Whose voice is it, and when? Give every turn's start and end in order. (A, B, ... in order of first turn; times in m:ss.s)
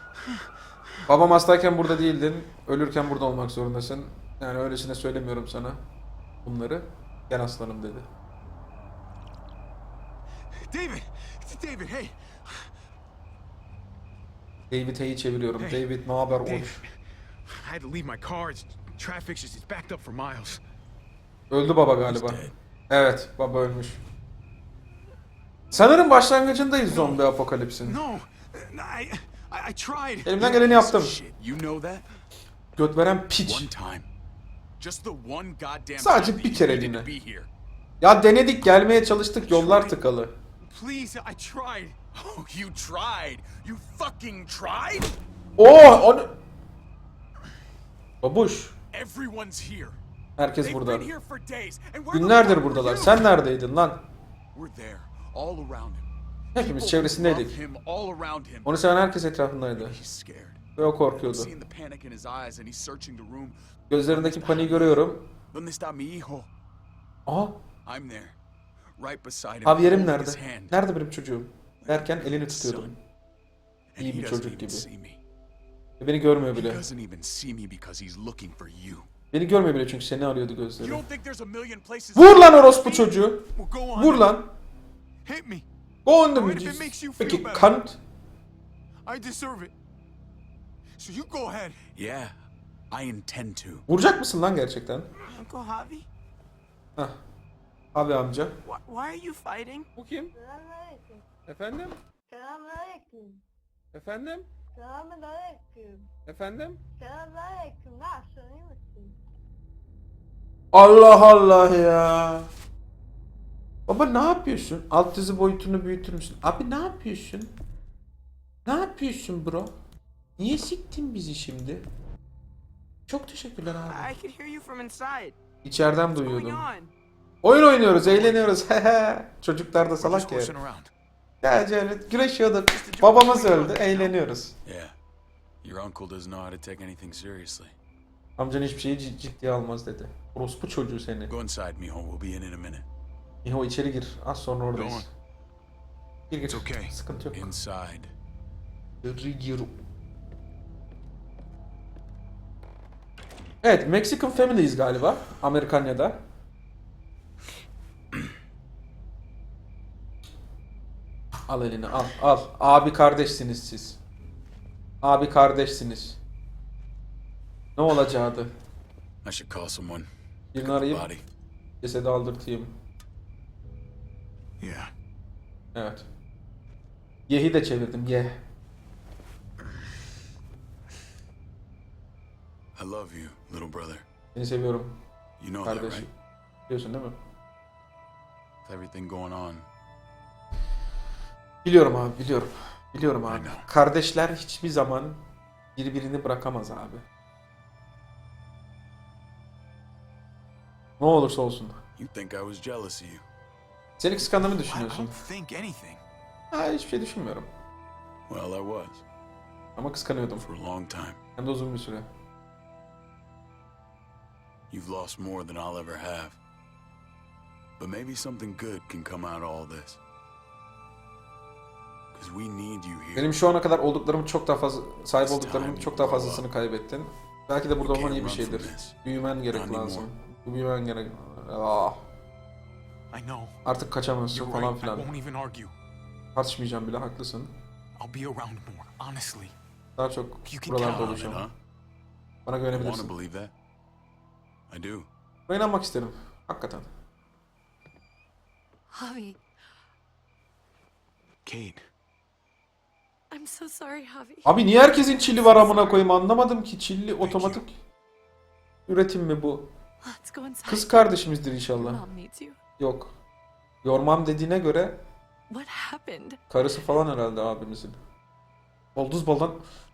0:01.0-0:05.8 A
0:06.4-0:08.1 A
0:10.6-0:12.7 B
0:14.7-0:16.8 A
0:15.6-0:15.9 B
0:16.4-0:16.9 B
0:17.4-0:20.6 B
0:21.5-0:24.0 A
0:22.0-0:22.5 B
0:25.7-0:28.0 A
0:26.9-0:27.2 B
0:27.8-0:32.1 B
0:30.2-0:31.2 A
0:32.8-0:33.7 A
0:33.4-0:34.1 B
0:34.8-0:37.5 B
0:36.0-0:37.1 A
0:38.0-0:40.3 A
0:39.4-0:40.0 B
0:40.6-0:45.2 B
0:45.6-0:46.4 A
0:48.2-0:48.7 A
0:48.9-0:50.0 B
0:50.4-0:51.1 A
0:50.6-0:53.3 B
0:52.1-0:54.0 A
0:54.5-0:58.7 B
0:56.5-0:57.6 A
0:58.6-1:00.0 A
0:59.8-1:03.6 B
1:00.8-1:01.5 A
1:03.9-1:05.3 A
1:04.1-1:05.0 B
1:05.5-1:06.5 B
1:07.2-1:07.6 A
1:07.8-1:08.4 B
1:09.0-1:10.8 B
1:09.6-1:13.0 A
1:11.9-1:12.9 B
1:13.9-1:15.2 B
1:14.0-1:14.9 A
1:16.0-1:16.8 A
1:16.5-1:19.1 B
1:19.3-1:21.0 A
1:20.8-1:24.4 B
1:22.1-1:24.5 A
1:25.2-1:25.6 B
1:26.0-1:28.0 A
1:26.3-1:27.8 B
1:29.0-1:29.7 B
1:31.0-1:32.3 B
1:32.9-1:33.8 B
1:33.9-1:35.1 A
1:35.3-1:36.1 C
1:37.9-1:38.6 A
1:38.6-1:39.9 C
1:39.9-1:40.3 A
1:40.3-1:41.2 D
1:41.4-1:42.0 A
1:42.3-1:43.4 D
1:43.9-1:44.5 A
1:44.7-1:46.1 D
1:46.2-1:46.8 A
1:47.0-1:49.1 D
1:50.7-1:52.5 A
1:53.9-1:57.5 A
1:58.6-1:59.7 A
2:00.4-2:01.8 A
2:03.1-2:04.1 A
2:03.8-2:05.4 C
2:05.6-2:06.7 A
2:06.2-2:06.9 C
2:07.4-2:10.5 A
2:08.0-2:08.6 B
2:10.0-2:10.9 B
2:11.4-2:14.5 A
2:12.7-2:15.0 B
2:15.6-2:17.7 B
2:18.4-2:21.3 A
2:21.3-2:22.8 B
2:23.4-2:25.1 A
2:24.7-2:25.1 B
2:26.3-2:27.5 A
2:26.5-2:28.1 B
2:29.0-2:29.7 A
2:33.6-2:36.2 A
2:41.5-2:44.0 A
2:45.0-2:46.2 A
2:47.8-2:48.5 A
2:49.2-2:51.2 B
2:50.5-2:51.0 A
2:51.8-2:52.7 A
2:54.6-2:54.9 B
2:55.7-2:56.0 A
2:57.3-2:58.4 A
3:02.8-3:04.0 B
3:04.3-3:05.0 A
3:05.4-3:06.1 B
3:05.6-3:06.1 A
3:06.7-3:07.2 A
3:08.6-3:09.7 B
3:11.6-3:15.2 A
3:13.2-3:13.7 B
3:15.8-3:17.0 A
3:21.0-3:21.8 A
3:22.0-3:23.2 B
3:24.0-3:25.2 A
3:24.2-3:26.0 B
3:26.5-3:27.5 A
3:28.3-3:29.0 B
3:29.8-3:30.5 A
3:30.4-3:31.2 B
3:31.4-3:32.1 A
3:34.7-3:36.4 B
3:37.8-3:40.0 B
3:42.1-3:43.4 B
3:43.1-3:52.0 A
3:45.2-3:46.4 B
3:47.8-3:49.0 B
3:49.5-3:50.1 B
3:53.1-3:53.6 B
3:53.6-3:55.1 A
3:54.3-3:55.7 B
3:56.3-3:57.5 A
3:58.0-3:59.5 B
4:00.0-4:01.5 A
4:00.5-4:01.5 B
4:02.4-4:03.1 A
4:02.7-4:03.5 B
4:04.7-4:05.1 B
4:05.5-4:06.9 A
4:08.9-4:09.4 E
4:11.4-4:11.8 B
4:13.3-4:14.6 E
4:14.4-4:17.7 A
4:15.1-4:16.0 E
4:17.2-4:17.6 B
4:18.9-4:19.7 A
4:20.0-4:21.1 E
4:20.6-4:22.0 A
4:21.8-4:22.6 E
4:22.8-4:23.1 A
4:23.8-4:25.0 A
4:25.5-4:26.4 E
4:26.5-4:28.0 A
4:28.9-4:29.6 A